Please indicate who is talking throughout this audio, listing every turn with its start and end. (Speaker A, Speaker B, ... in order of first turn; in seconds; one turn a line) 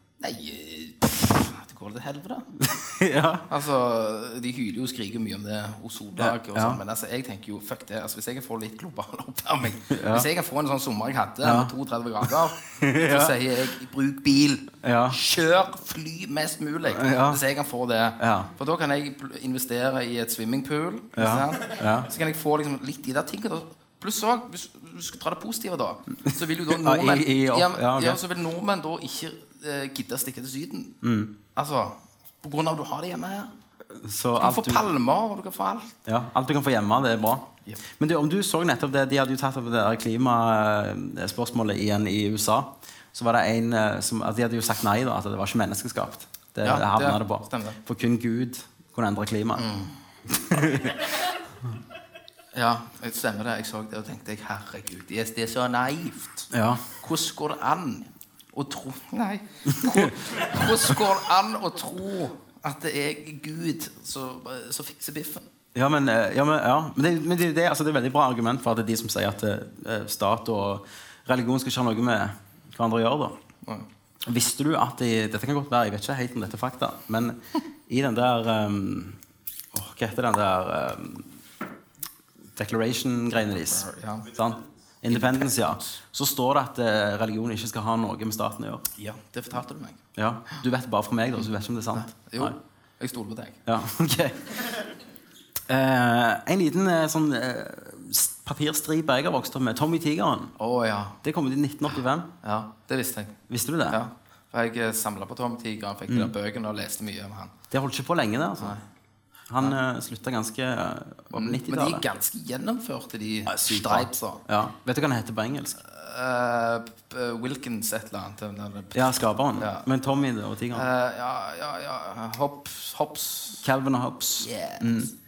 Speaker A: 0.2-2.5
Speaker B: 2.6-3.4
Speaker A: 3.5-30.9
Speaker B: 6.2-6.8
Speaker B: 9.9-10.3
Speaker B: 11.4-11.7
Speaker B: 12.7-13.4
Speaker B: 14.8-15.2
Speaker B: 16.9-17.4
Speaker B: 18.2-18.5
Speaker B: 21.1-22.1
Speaker B: 26.6-28.2
Speaker B: 31.0-31.3
Speaker A: 31.5-33.5
Speaker B: 33.9-34.9
Speaker A: 34.4-36.0
Speaker B: 36.0-49.7
Speaker A: 46.6-47.8
Speaker A: 49.5-49.9
Speaker B: 50.2-51.1
Speaker A: 52.5-65.4
Speaker B: 56.5-56.8
Speaker B: 59.7-60.1
Speaker B: 65.7-73.3
Speaker B: 74.2-79.2
Speaker B: 79.7-81.3
Speaker B: 82.5-88.8
Speaker A: 83.5-84.3
Speaker A: 85.1-85.9
Speaker A: 89.0-90.6
Speaker B: 90.2-92.5
Speaker A: 91.9-93.6
Speaker B: 93.7-94.9
Speaker B: 95.7-100.5
Speaker A: 100.6-101.2
Speaker B: 101.2-102.3
Speaker A: 102.4-103.4
Speaker B: 103.5-104.0
Speaker A: 103.9-107.5
Speaker B: 107.7-108.7
Speaker B: 109.5-112.0
Speaker A: 111.3-114.4
Speaker B: 113.5-115.8
Speaker A: 115.8-119.8
Speaker B: 118.9-120.9
Speaker A: 120.7-123.6
Speaker B: 123.6-125.1
Speaker A: 124.4-125.1